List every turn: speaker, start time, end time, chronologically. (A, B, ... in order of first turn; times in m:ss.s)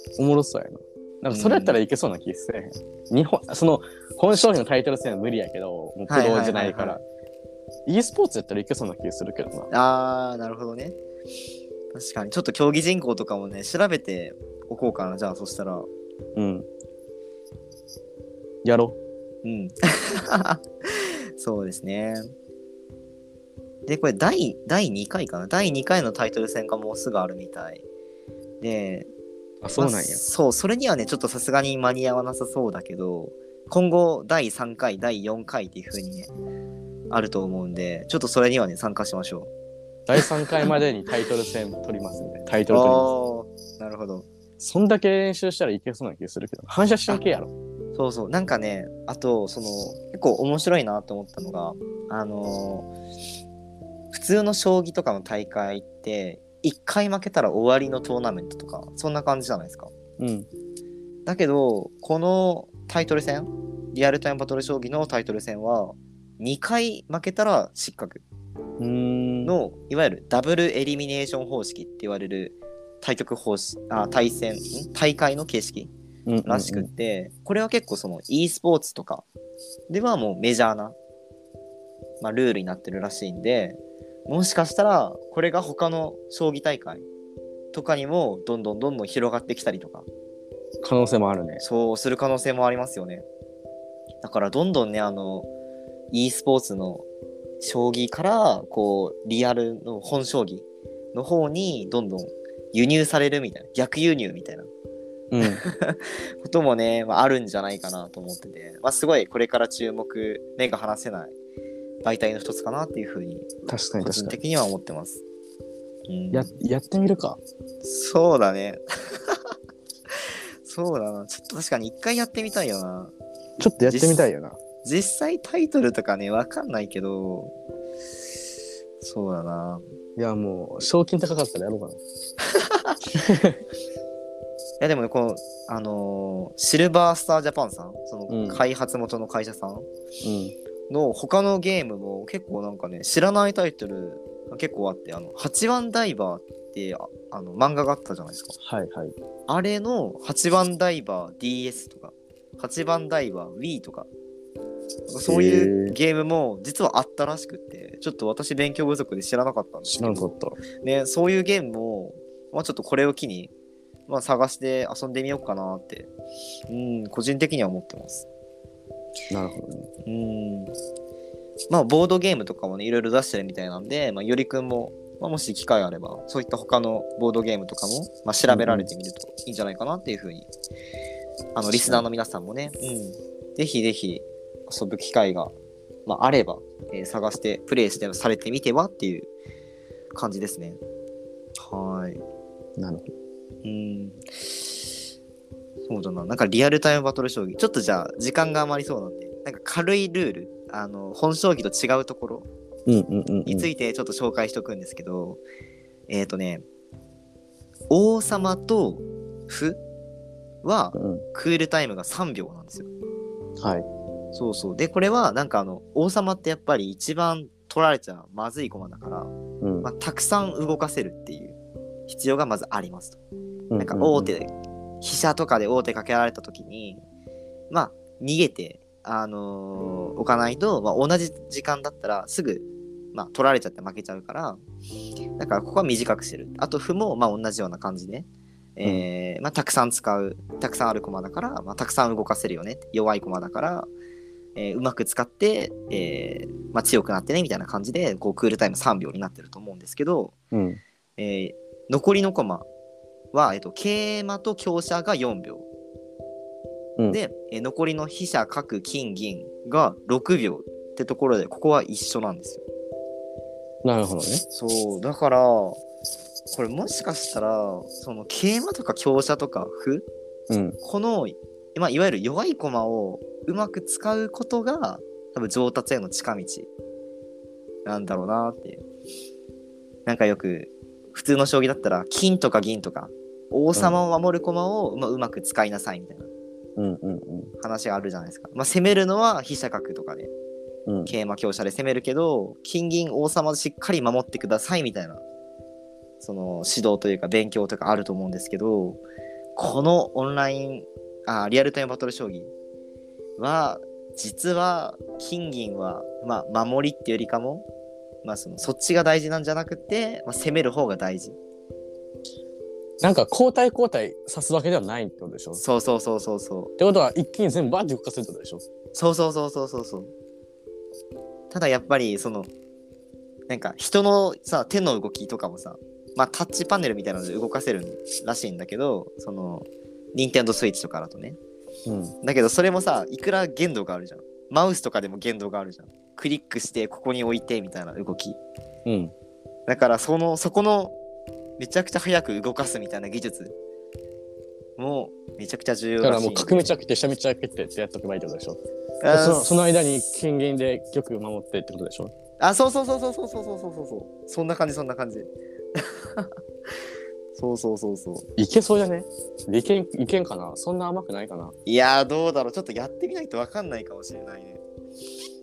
0:00.2-0:07.0 A
0:01.3-0:01.8 B
0:06.1-0:07.0 B
0:07.8-0:09.7 A
0:09.7-0:11.0 B
0:11.9-0:15.9 B
0:16.4-0:16.6 A
0:18.6-0:19.0 A
0:19.4-0:22.3 B
0:23.9-0:27.8 B
0:28.6-0:29.1 B
0:29.6-0:30.2 A
0:29.8-0:36.3 B
0:37.1-0:39.5 B
0:40.1-0:43.1 A
0:40.2-0:40.6 B
0:42.7-0:44.3 B
0:44.6-0:47.5 A
0:47.9-0:52.9 B
0:54.1-0:59.9 B
1:00.2-1:00.5 A
1:01.2-1:08.2 B
1:08.8-1:09.5 A
1:09.4-1:15.9 B
1:16.3-1:16.9 A
1:16.4-1:19.2 B
1:19.9-1:21.0 B
1:22.2-1:27.0 B
1:27.7-1:30.1 B
1:30.8-1:31.6 A
1:31.6-1:33.2 B
1:34.2-1:35.5 B
1:36.1-1:37.0 B
1:37.6-1:44.7 B
1:45.3-1:45.6 A
1:45.4-1:51.3 B
1:52.0-1:55.2 B
1:53.6-1:54.4 A
1:56.1-1:56.5 B
1:56.3-1:57.4 A
1:57.8-1:59.4 B
2:00.6-2:03.1 B
2:03.6-2:04.6 A
2:03.8-2:04.3 B
2:04.8-2:07.5 B
2:09.0-2:09.8 B
2:10.2-2:12.0 A
2:12.5-2:13.0 B
2:13.1-2:13.6 A
2:14.8-2:19.9 B
2:18.3-2:18.6 A
2:20.2-2:20.5 A
2:20.9-2:28.5 B
2:28.6-2:29.1 A
2:29.5-2:34.1 B
2:35.1-2:43.5 B
2:35.2-2:36.0 A
2:39.9-2:40.6 A
2:44.1-2:46.1 B
2:46.7-2:48.3 B
2:49.3-2:49.9 A
2:50.0-2:50.7 B
2:51.7-3:00.5 B
2:58.5-2:58.9 A
3:01.5-3:05.5 B
3:06.0-3:09.3 B
3:10.1-3:10.8 B
3:11.6-3:12.2 B
3:12.8-3:13.1 A
3:13.6-3:14.5 B
3:15.9-3:22.5 B
3:22.9-3:23.7 A
3:23.4-3:25.4 B
3:26.1-3:26.6 B
3:27.9-3:29.8 B
3:30.6-3:32.9 B
3:30.9-3:31.2 A
3:33.6-3:33.9 A
3:34.3-3:41.6 B
3:39.6-3:39.9 A
3:42.1-3:43.2 B
3:43.7-3:44.3 A
3:43.8-3:47.0 B
3:47.7-3:54.6 B
3:55.4-4:03.9 B
4:04.6-4:10.3 B
4:10.5-4:10.8 A
4:11.2-4:12.7 B
4:13.3-4:15.6 B
4:17.1-4:22.6 B
4:23.8-4:24.4 A
4:24.5-4:25.8 B
4:26.5-4:30.0 B
4:30.5-4:30.8 A
4:30.8-4:36.7 B
4:37.8-4:38.8 B
4:40.0-4:46.3 B
4:46.8-4:47.5 A
4:47.6-4:50.3 B
4:50.8-4:51.1 A
4:51.1-4:55.2 B
4:56.2-4:59.0 B
4:59.6-5:02.5 B
5:03.4-5:07.7 B
5:08.2-5:11.4 B
5:13.0-5:15.6 A
5:15.6-5:16.7 B
5:16.8-5:18.6 A
5:18.9-5:20.1 B
5:21.5-5:22.5 B
5:23.5-5:31.4 B
5:31.8-5:32.1 A
5:32.2-5:38.4 B
5:38.8-5:39.1 A
5:39.7-5:41.0 B
5:41.6-5:43.5 B
5:44.8-5:46.7 B
5:46.0-5:48.6 A
5:49.0-5:49.7 B
5:49.1-5:52.1 A
5:52.4-5:56.3 B
5:57.3-5:58.3 B
5:58.4-6:01.5 A
6:01.6-6:04.6 B